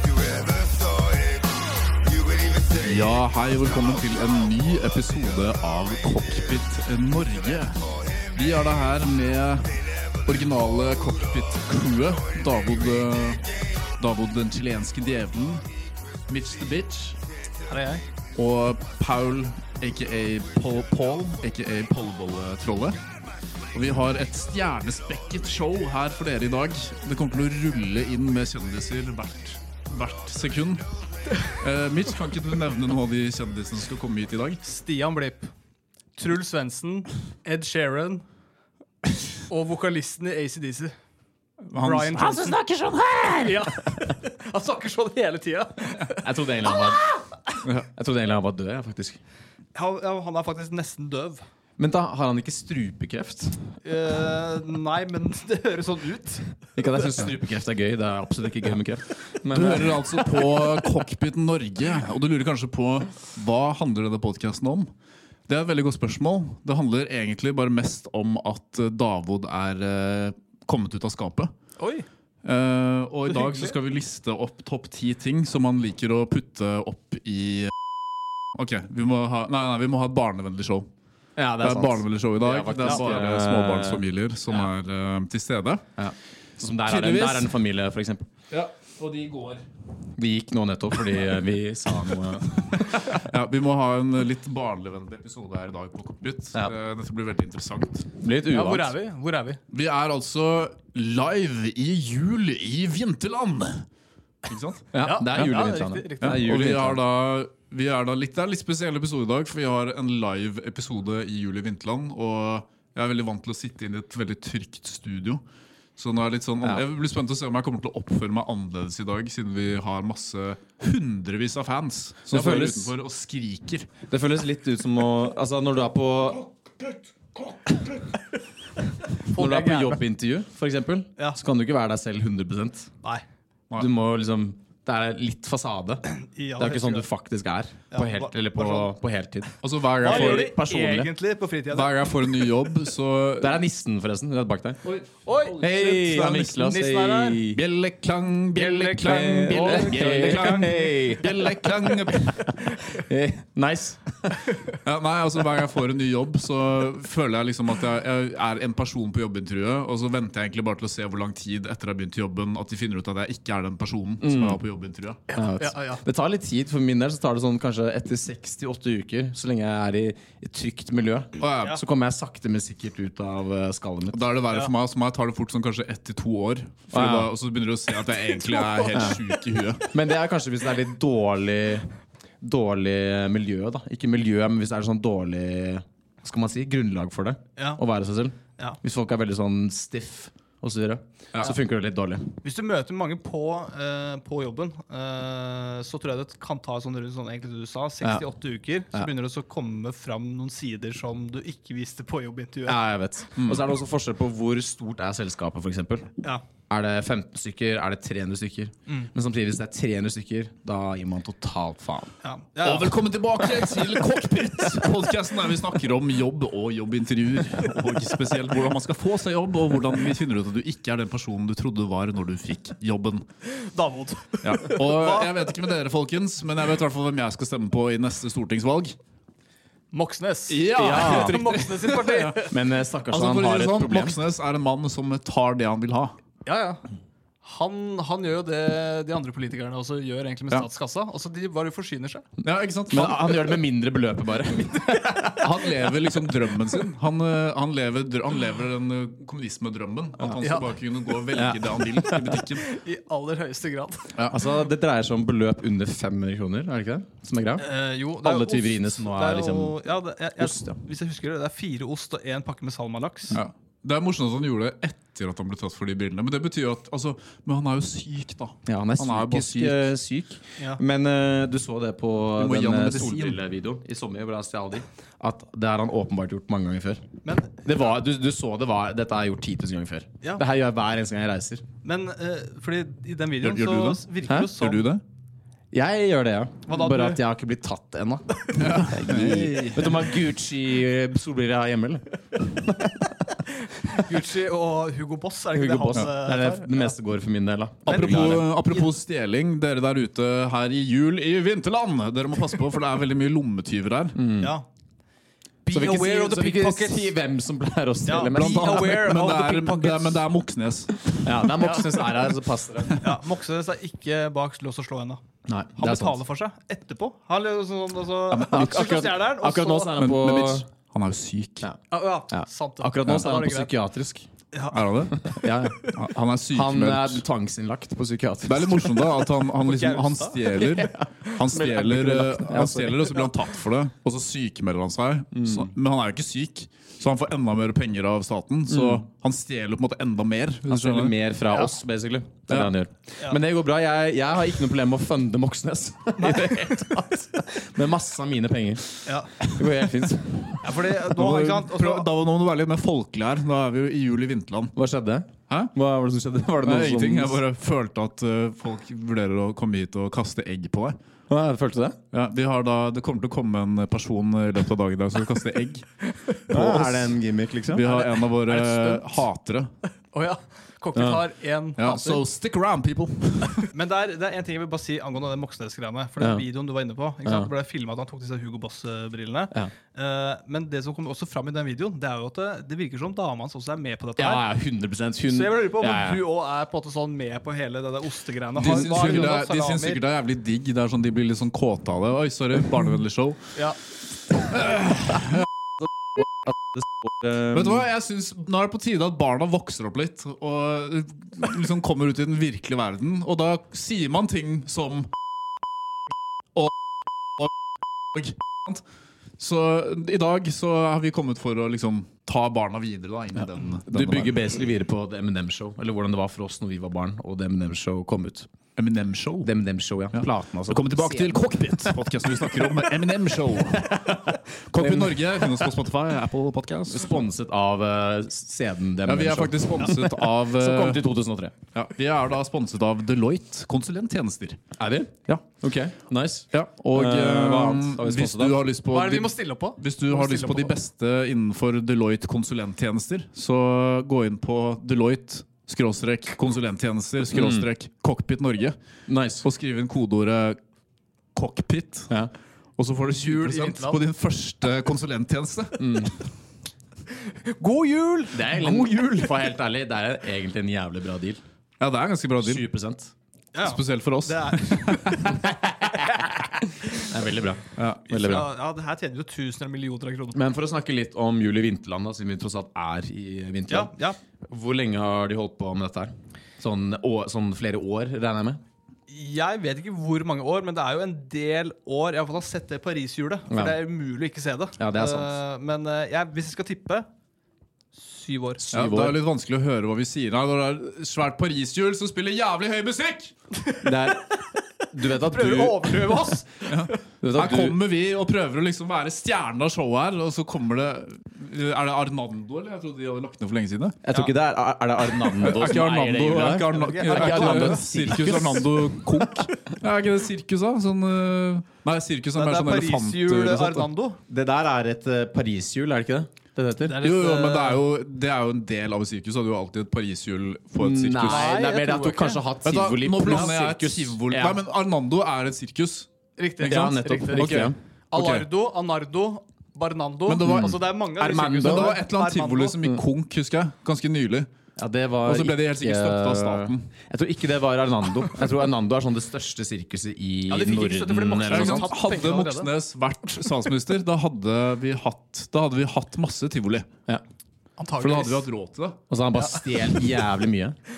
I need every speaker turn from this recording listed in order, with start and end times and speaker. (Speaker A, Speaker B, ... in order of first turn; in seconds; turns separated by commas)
Speaker A: 2.8-15.7, Speaker A: 16.3-17.2, Speaker B: 17.7-18.1, Speaker A: 18.4-23.0, Speaker A: 23.7-30.9, Speaker A: 31.4-34.6, Speaker B: 34.6-35.5, Speaker B: 36.2-38.2, Speaker B: 39.5-41.0, Speaker A: 41.7-42.2, Speaker B: 41.8-42.6, Speaker C: 42.1-43.9, Speaker B: 43.4-47.2, Speaker C: 46.2-47.1, Speaker C: 47.8-49.2, Speaker B: 49.8-51.4, Speaker C: 51.8-53.7, Speaker B: 53.8-56.5, Speaker C: 56.8-60.3, Speaker A: 59.5-64.9, Speaker A: 65.5-71.5, Speaker B: 71.8-72.1, Speaker A: 72.4-77.7, Speaker B: 73.3-73.7, Speaker A: 78.5-80.9, Speaker C: 81.4-84.0, Speaker A: 81.6-85.8, Speaker B: 82.8-83.2, Speaker C: 86.0-88.3, Speaker A: 86.9-87.5, Speaker A: 88.5-89.6, Speaker C: 90.2-93.0, Speaker A: 92.7-98.1, Speaker C: 98.2-99.0, Speaker B: 98.5-99.6, Speaker A: 99.7-103.9, Speaker A: 104.5-104.9, Speaker C: 104.9-107.0, Speaker B: 105.0-106.4, Speaker A: 106.2-115.4, Speaker A: 116.0-123.9, Speaker C: 122.3-122.9, Speaker C: 124.1-126.5, Speaker B: 129.3-130.0, Speaker C: 129.3-132.9, Speaker C: 133.8-136.1, Speaker B: 136.1-137.1, Speaker C: 136.6-141.1, Speaker B: 137.9-138.9, Speaker A: 139.6-140.6, Speaker B: 140.0-142.0, Speaker A: 141.7-143.6, Speaker C: 143.4-144.8, Speaker A: 144.8-146.8, Speaker B: 145.2-145.6, Speaker C: 145.6-147.6, Speaker B: 146.6-147.4, Speaker A: 147.5-152.6, Speaker B: 148.6-150.7, Speaker C: 149.0-154.5, Speaker A: 154.7-165.2, Speaker C: 164.2-164.6, Speaker C: 165.3-174.3, Speaker B: 165.4-166.0, Speaker A: 171.4-171.8, Speaker A: 174.1-179.9, Speaker C: 176.9-177.3, Speaker C: 178.9-179.2, Speaker C: 179.9-181.9, Speaker C: 182.4-192.3, Speaker B: 192.4-202.8, Speaker C: 202.7-206.1, Speaker A: 203.4-203.7, Speaker C: 206.7-212.1, Speaker B: 212.2-213.0, Speaker A: 212.6-223.3, Speaker B: 223.5-225.3, Speaker A: 224.4-228.9, Speaker B: 229.9-232.5, Speaker A: 230.5-232.5, Speaker C: 230.8-231.4, Speaker C: 232.5-234.2, Speaker A: 233.1-236.1, Speaker B: 236.5-236.8, Speaker B: 237.4-242.2, Speaker A: 242.4-243.4, Speaker C: 242.9-245.8, Speaker A: 245.4-252.7, Speaker B: 250.4-250.7, Speaker C: 251.3-252.4, Speaker B: 252.5-254.1, Speaker C: 254.3-257.7, Speaker B: 257.6-263.4, Speaker C: 258.2-259.8, Speaker C: 260.4-260.8, Speaker A: 263.3-269.9, Speaker C: 268.7-277.0, Speaker A: 272.4-273.4, Speaker B: 277.2-277.6, Speaker C: 277.6-281.6, Speaker B: 281.8-284.9, Speaker A: 283.4-285.0, Speaker C: 284.3-284.5, Speaker C: 285.7-293.1, Speaker B: 286.7-287.2, Speaker A: 288.5-290.1, Speaker B: 293.8-296.9, Speaker C: 295.5-298.5, Speaker A: 297.9-304.2, Speaker B: 297.9-298.9, Speaker C: 304.1-304.5, Speaker B: 304.4-304.7, Speaker B: 305.7-307.1, Speaker C: 305.7-309.1, Speaker B: 308.1-310.2, Speaker A: 308.3-311.3, Speaker C: 311.2-313.0, Speaker B: 313.0-315.2, Speaker C: 315.5-316.2, Speaker B: 315.8-320.0, Speaker A: 318.3-319.1, Speaker C: 318.5-320.7, Speaker A: 320.0-321.7, Speaker B: 321.9-323.7, Speaker C: 322.3-324.3, Speaker B: 324.5-324.9, Speaker A: 324.7-325.3, Speaker C: 325.3-325.9, Speaker A: 325.8-327.2, Speaker C: 326.5-329.1, Speaker A: 328.4-341.2, Speaker B: 329.6-331.6, Speaker C: 330.8-333.1, Speaker C: 335.3-335.7, Speaker C: 338.7-339.0, Speaker C: 340.7-350.8, Speaker A: 342.5-342.8, Speaker B: 346.2-346.8, Speaker B: 349.1-349.3, Speaker B: 350.6-352.1, Speaker A: 351.1-354.7, Speaker C: 354.8-357.4, Speaker A: 356.6-361.0, Speaker C: 361.3-362.0, Speaker A: 362.1-367.2, Speaker C: 366.5-367.8, Speaker A: 367.7-369.7, Speaker B: 367.8-369.3, Speaker B: 370.1-372.2, Speaker C: 370.9-371.2, Speaker A: 371.8-373.7, Speaker B: 373.6-384.5, Speaker C: 376.2-376.5, Speaker C: 377.2-377.5, Speaker C: 384.2-386.2, Speaker B: 385.3-390.0, Speaker A: 388.6-393.5, Speaker C: 388.6-388.9, Speaker A: 394.5-395.5, Speaker C: 395.8-397.9, Speaker A: 397.5-405.1, Speaker A: 408.1-408.8, Speaker A: 409.4-414.5, Speaker C: 413.9-418.5, Speaker A: 418.8-419.5, Speaker C: 419.4-421.9, Speaker A: 420.1-427.1, Speaker C: 423.6-425.7, Speaker C: 426.9-431.6, Speaker A: 429.1-431.0, Speaker A: 431.7-434.6, Speaker C: 434.8-438.7, Speaker A: 436.5-448.8, Speaker B: 438.9-440.8, Speaker C: 447.3-447.7, Speaker C: 449.1-449.4, Speaker A: 449.4-450.6, Speaker A: 451.4-452.1, Speaker A: 452.8-456.1, Speaker B: 453.1-454.0, Speaker C: 455.8-456.1, Speaker B: 457.3-458.9, Speaker C: 458.3-461.4, Speaker A: 461.8-462.7, Speaker C: 462.4-463.1, Speaker B: 463.5-465.4, Speaker A: 463.6-465.3, Speaker C: 465.5-466.3, Speaker C: 466.9-468.5, Speaker A: 467.8-468.4, Speaker B: 468.1-470.4, Speaker C: 470.3-473.9, Speaker B: 473.7-474.2, Speaker C: 474.5-478.6, Speaker B: 479.1-487.1, Speaker C: 483.5-483.8, Speaker C: 484.8-485.4, Speaker B: 487.9-488.6, Speaker C: 488.6-489.2, Speaker A: 488.7-493.3, Speaker B: 493.7-494.1, Speaker C: 493.8-494.4, Speaker C: 494.9-496.4, Speaker B: 495.2-496.6, Speaker A: 496.7-504.0, Speaker C: 497.2-497.8, Speaker C: 504.0-508.9, Speaker A: 505.2-513.9, Speaker B: 506.6-507.9, Speaker B: 512.4-514.2, Speaker C: 514.3-517.0, Speaker B: 516.8-517.8, Speaker A: 517.0-521.5, Speaker C: 520.8-524.6, Speaker B: 521.3-522.4, Speaker A: 522.6-526.1, Speaker B: 526.4-532.8, Speaker A: 526.6-528.5, Speaker C: 526.6-527.8, Speaker A: 530.3-534.5, Speaker C: 530.5-532.0, Speaker C: 534.8-541.9, Speaker A: 535.2-536.9, Speaker B: 540.5-542.7, Speaker A: 541.5-546.9, Speaker B: 547.8-548.5, Speaker A: 548.0-549.0, Speaker C: 549.1-550.8, Speaker B: 549.4-550.0